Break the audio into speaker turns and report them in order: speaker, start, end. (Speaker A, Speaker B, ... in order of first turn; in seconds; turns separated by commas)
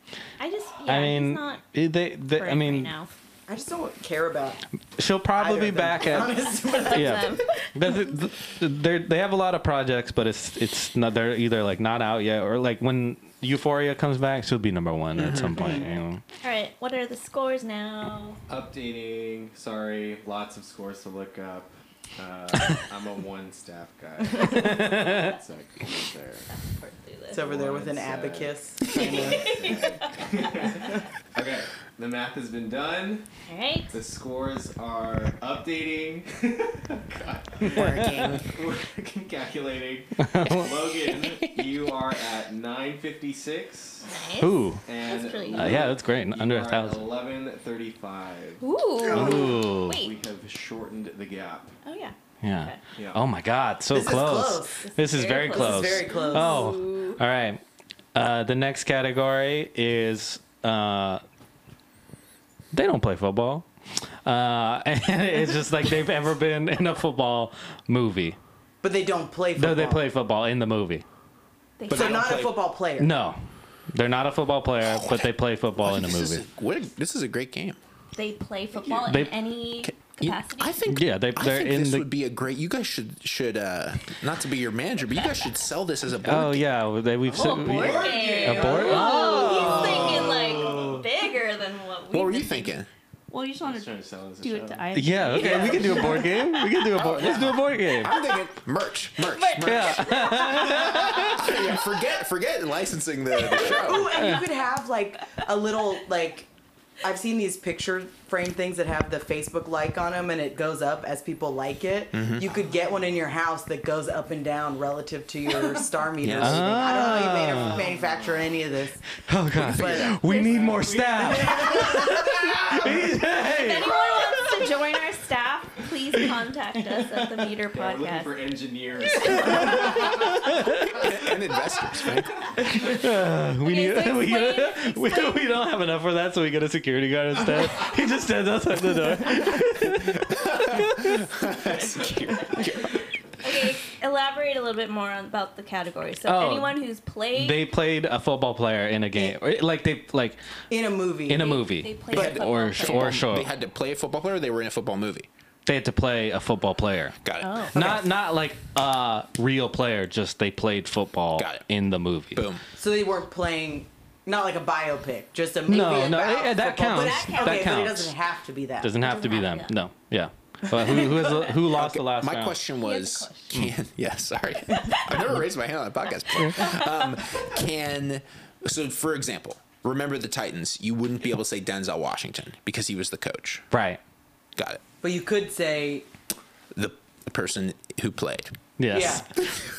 Speaker A: 0.4-1.6, Speaker B: 0.9-2.9, Speaker A: 2.3-3.1, Speaker C: 3.5-4.6, Speaker B: 5.0-16.2, Speaker C: 5.4-7.4, Speaker A: 6.7-7.7, Speaker D: 15.2-15.9, Speaker C: 15.6-15.9, Speaker A: 16.4-18.4, Speaker E: 18.5-26.5, Speaker B: 24.6-25.1, Speaker A: 24.9-25.3, Speaker A: 26.5-27.4, Speaker C: 27.3-29.7, Speaker E: 27.4-33.3, Speaker A: 28.8-30.0, Speaker A: 33.5-34.0, Speaker E: 33.9-44.1, Speaker D: 37.7-38.5, Speaker B: 40.3-40.7, Speaker A: 44.0-45.9, Speaker B: 44.4-44.8, Speaker E: 44.9-51.7, Speaker B: 45.5-47.1, Speaker A: 48.6-50.1, Speaker B: 49.1-50.0, Speaker A: 51.9-52.8, Speaker B: 52.4-57.6, Speaker E: 53.0-53.2, Speaker C: 53.9-56.7, Speaker A: 54.8-57.2, Speaker B: 58.1-61.2, Speaker B: 62.7-63.7, Speaker B: 64.2-68.4, Speaker C: 68.8-70.0, Speaker B: 69.6-71.0, Speaker A: 71.8-72.3, Speaker D: 71.9-72.6, Speaker C: 71.9-73.1, Speaker B: 73.0-73.4, Speaker B: 73.9-76.4, Speaker D: 74.8-77.8, Speaker A: 78.2-80.8, Speaker E: 78.8-79.2, Speaker B: 79.1-79.3, Speaker D: 79.8-86.7, Speaker B: 80.9-82.1, Speaker B: 86.2-90.6, Speaker A: 87.3-92.8, Speaker E: 87.4-91.1, Speaker D: 92.1-92.9, Speaker A: 93.3-96.7, Speaker E: 93.6-95.6, Speaker B: 94.9-98.1, Speaker C: 95.4-96.3, Speaker D: 96.9-104.3, Speaker A: 99.2-101.2, Speaker B: 99.6-101.6, Speaker C: 103.6-106.5, Speaker B: 104.1-104.4, Speaker C: 107.0-119.0, Speaker D: 112.1-112.5, Speaker D: 116.2-116.9, Speaker B: 116.3-117.8, Speaker E: 117.5-118.7, Speaker B: 119.3-124.6, Speaker D: 119.6-120.2, Speaker C: 119.7-120.2, Speaker A: 120.2-120.8, Speaker E: 120.3-123.0, Speaker C: 121.7-122.0, Speaker A: 123.4-128.4, Speaker E: 127.7-130.5, Speaker A: 129.1-130.0, Speaker B: 129.8-130.8, Speaker D: 130.9-132.5, Speaker B: 132.7-141.3, Speaker A: 133.6-135.5, Speaker D: 139.9-143.0, Speaker A: 141.6-142.7, Speaker A: 143.4-147.7, Speaker B: 146.3-146.8, Speaker B: 147.3-150.4, Speaker C: 150.7-151.7, Speaker B: 151.3-153.5, Speaker A: 151.3-153.2, Speaker D: 152.1-155.3, Speaker B: 155.7-157.2, Speaker D: 157.2-157.8, Speaker A: 157.4-157.9, Speaker B: 157.7-162.5, Speaker D: 161.4-161.7, Speaker D: 162.3-162.6, Speaker C: 162.8-168.9, Speaker B: 165.7-168.1, Speaker A: 166.9-167.9, Speaker B: 168.8-172.6, Speaker A: 169.0-169.8, Speaker A: 170.9-171.5, Speaker D: 171.7-183.7, Speaker A: 172.8-173.6, Speaker A: 174.7-175.2, Speaker A: 176.6-177.0, Speaker B: 183.7-184.0, Speaker D: 184.6-184.8, Speaker C: 185.0-186.1, Speaker D: 186.7-188.6, Speaker B: 188.8-189.2, Speaker C: 188.9-189.4